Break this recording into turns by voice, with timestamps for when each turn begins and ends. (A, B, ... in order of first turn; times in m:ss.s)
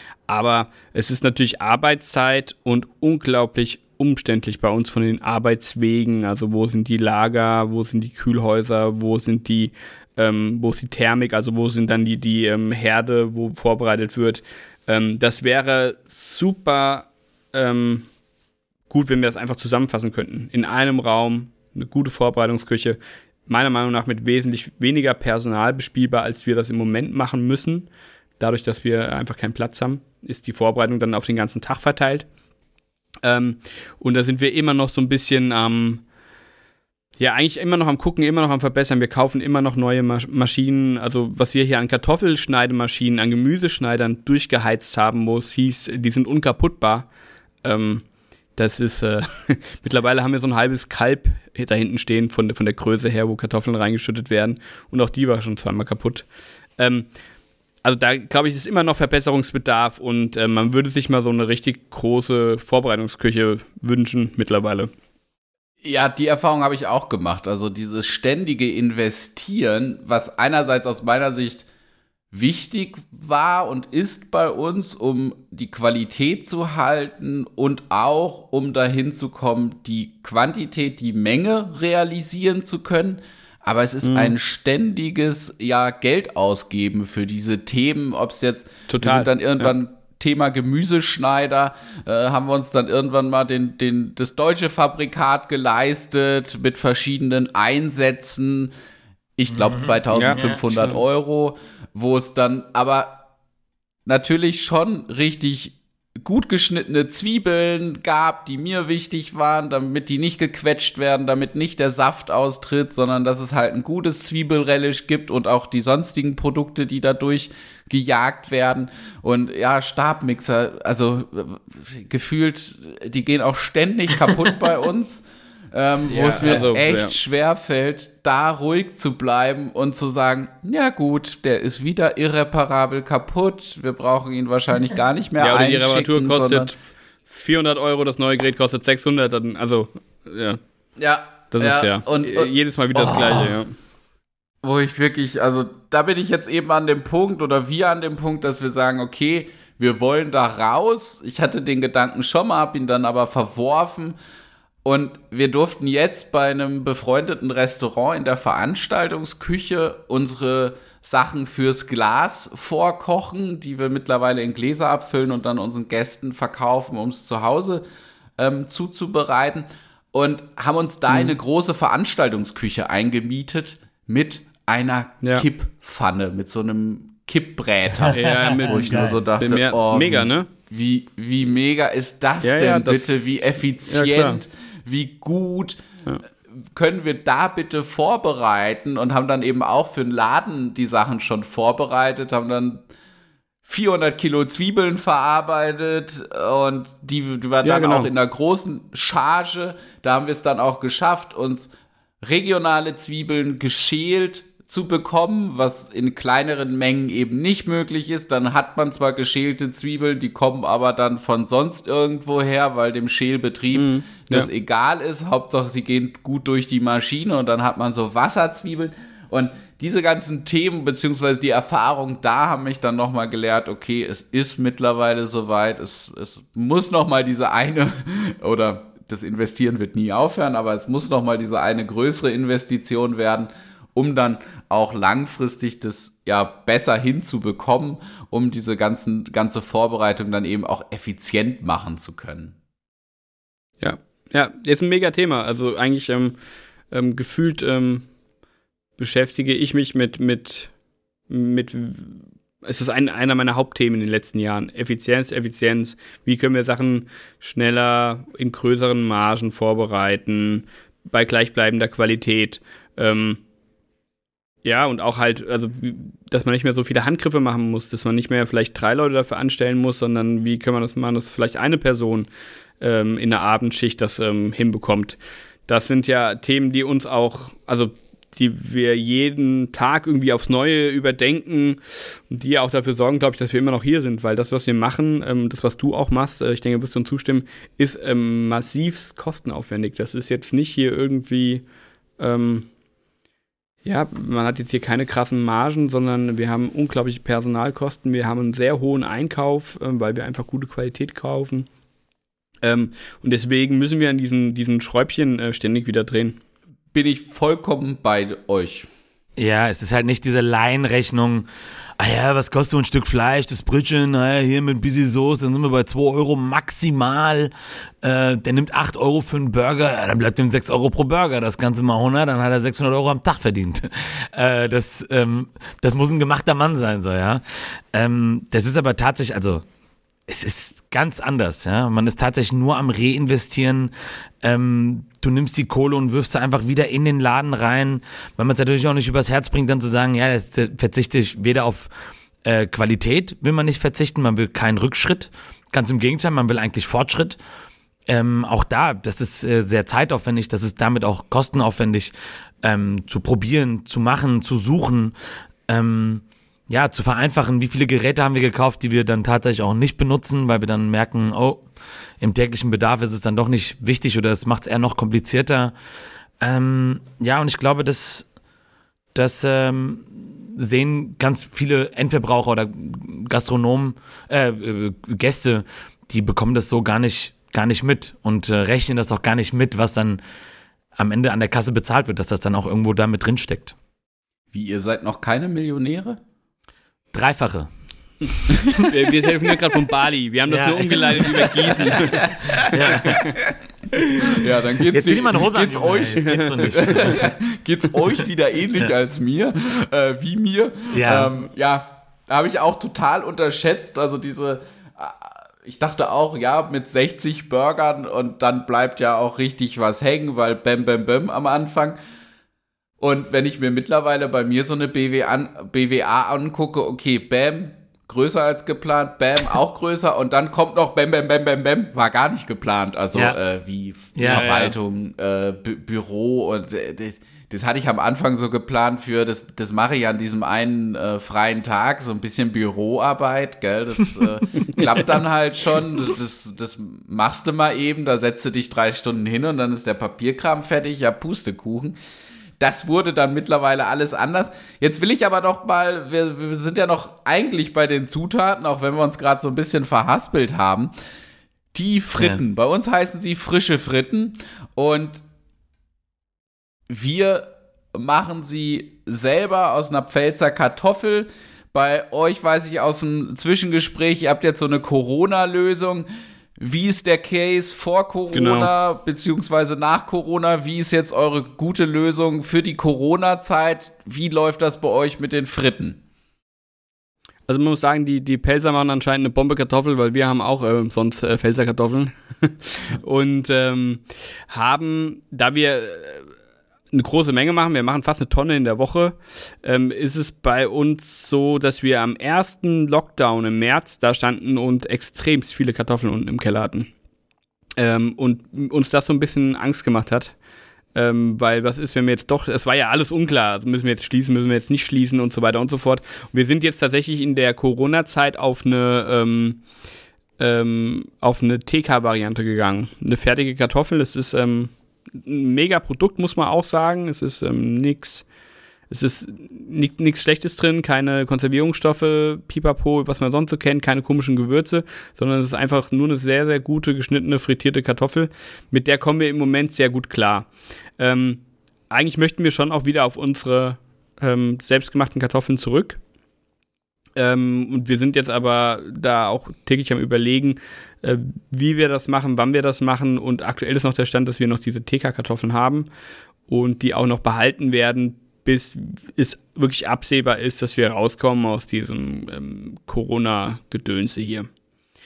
0:00.3-0:18.1 A
0:18.9-0:27.9 A
0:28.4-0:32.3 A
0:33.2-0:36.0 A
0:37.2-0:47.1 A
0:47.6-0:48.0 A
0:48.6-0:56.2 A
0:56.8-0:57.1 A
0:57.8-1:04.9 A
1:05.8-1:11.7 B
1:12.3-1:38.7 B
1:24.0-1:24.3 A
1:28.9-1:29.7 A
1:39.4-1:43.2 B
1:39.5-1:40.6 C
1:40.1-1:41.0 A
1:44.0-2:16.7 B
2:06.1-2:07.2 A
2:15.4-2:20.6 A
2:21.0-2:23.6 B
2:21.5-2:23.7 A
2:24.6-2:34.2 B
2:34.8-2:47.8 B
2:48.4-3:05.8 B
2:57.9-2:59.2 C
2:58.1-2:58.9 A
2:59.4-3:00.5 A
3:02.4-3:03.2 A
3:03.9-3:04.4 A
3:06.7-3:12.8 B
3:13.6-3:21.7 B
3:17.6-3:18.1 A
3:22.2-4:02.5 B
3:33.7-3:34.5 A
4:03.8-4:06.4 A
4:06.9-4:08.1 A
4:09.0-4:10.7 A
4:11.3-4:23.4 A
4:24.6-4:32.3 A
4:32.8-4:51.6 A
4:52.2-4:52.7 A
4:53.8-5:01.7 A
5:02.6-5:06.4 A
5:06.9-5:08.9 B
5:09.4-5:11.5 C
5:12.0-5:29.6 C
5:30.3-5:41.9 C
5:42.4-5:47.4 C
5:48.1-5:55.1 C
5:55.7-6:01.6 C
6:02.2-6:05.7 C
6:06.4-6:08.2 C
6:09.1-6:20.2 C
6:21.0-6:23.7 C
6:24.5-6:26.2 B
6:27.1-6:27.7 C
6:28.6-6:33.3 A
6:30.5-6:33.4 C
6:31.9-6:33.4 B
6:34.0-6:34.2 A
6:34.2-6:52.0 B
6:34.9-6:37.3 C
6:36.2-6:36.5 A
6:40.9-6:41.3 C
6:53.0-7:22.0 B
7:04.1-7:04.7 C
7:04.2-7:04.7 A
7:22.6-7:30.9 B
7:31.7-7:35.2 B
7:36.9-7:46.1 B
7:46.6-7:56.0 B
7:48.3-7:48.7 A
7:57.5-8:06.3 A
8:06.9-8:16.9 A
8:17.8-8:20.3 A
8:20.9-8:29.6 A
8:30.4-8:38.2 A
8:38.9-8:56.0 A
8:57.2-9:05.9 A
9:06.5-9:14.5 A